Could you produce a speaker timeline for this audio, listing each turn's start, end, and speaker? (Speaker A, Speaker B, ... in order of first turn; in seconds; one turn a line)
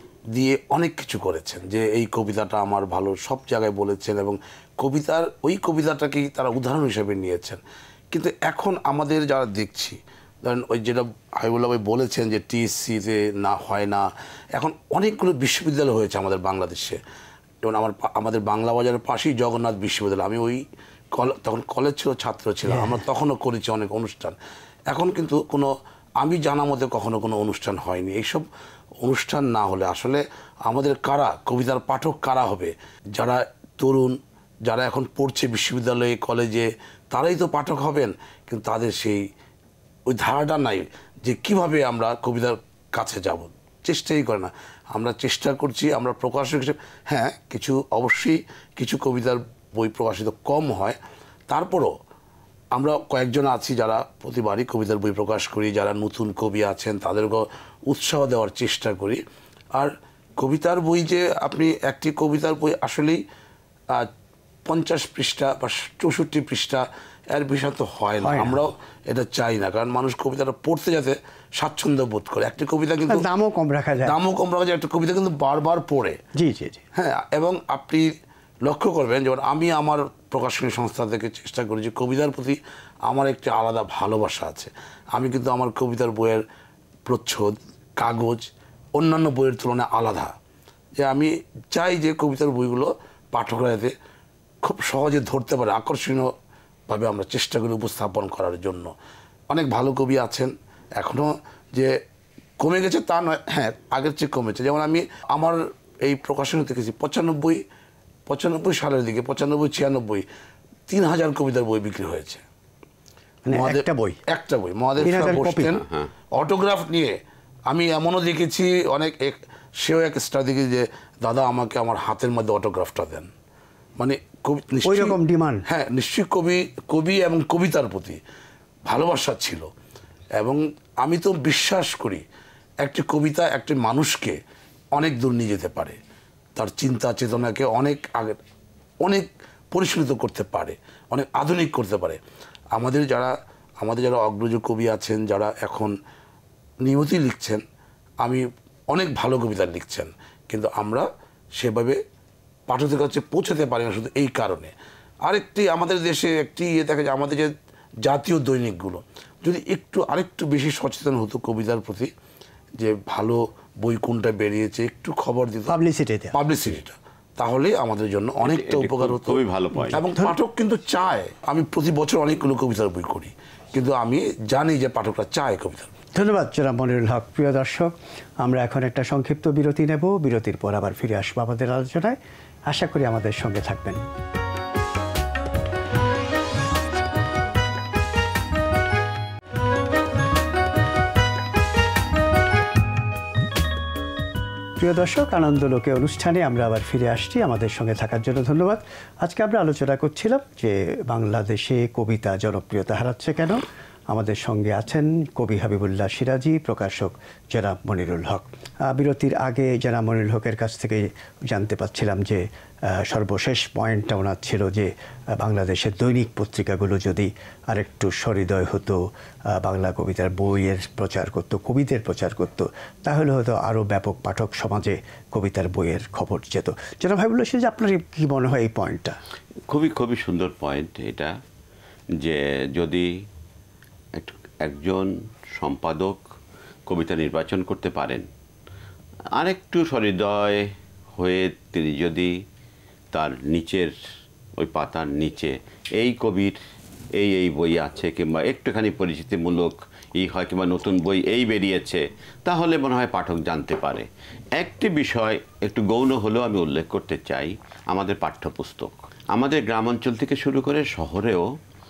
Speaker A: 0.3-7.6
Speaker A: 8.1-17.0
Speaker A: 17.6-24.4
Speaker B: 22.7-23.0
Speaker A: 24.9-28.4
Speaker A: 29.0-39.2
Speaker A: 40.1-51.0
Speaker A: 51.5-51.9
Speaker A: 52.7-59.2
Speaker A: 59.7-63.2
Speaker A: 64.7-73.3
Speaker B: 68.2-68.6
Speaker B: 73.1-74.1
Speaker A: 74.0-76.2
Speaker B: 76.4-76.8
Speaker A: 76.9-78.1
Speaker A: 78.6-86.4
Speaker A: 87.1-90.3
Speaker A: 91.0-93.9
Speaker A: 94.6-96.3
Speaker A: 96.9-98.9
Speaker A: 99.5-101.9
Speaker A: 102.6-107.6
Speaker A: 108.3-110.2
Speaker A: 110.9-112.4
Speaker B: 113.5-114.2
Speaker A: 113.5-117.2
Speaker B: 115.0-115.7
Speaker A: 117.7-123.3
Speaker A: 124.0-128.2
Speaker B: 124.8-125.6
Speaker A: 128.8-129.7
Speaker A: 130.4-132.2
Speaker A: 132.8-134.4
Speaker A: 134.9-136.0
Speaker A: 136.6-138.4
Speaker A: 139.0-142.2
Speaker A: 142.7-145.9
Speaker A: 146.8-147.6
Speaker A: 148.2-152.0
Speaker A: 152.7-154.7
Speaker A: 155.2-157.5
Speaker A: 158.0-162.1
Speaker A: 162.8-165.8
Speaker B: 165.7-166.3
Speaker A: 166.3-169.4
Speaker C: 168.4-170.0
Speaker B: 169.8-170.3
Speaker A: 169.9-175.9
Speaker B: 176.1-182.2
Speaker B: 182.7-184.0
Speaker B: 194.8-229.2
Speaker C: 229.7-231.3
Speaker C: 232.2-233.1
Speaker C: 234.2-236.2
Speaker C: 236.9-238.2
Speaker C: 239.4-242.3
Speaker C: 243.1-243.9
Speaker C: 244.6-246.6
Speaker C: 247.2-261.5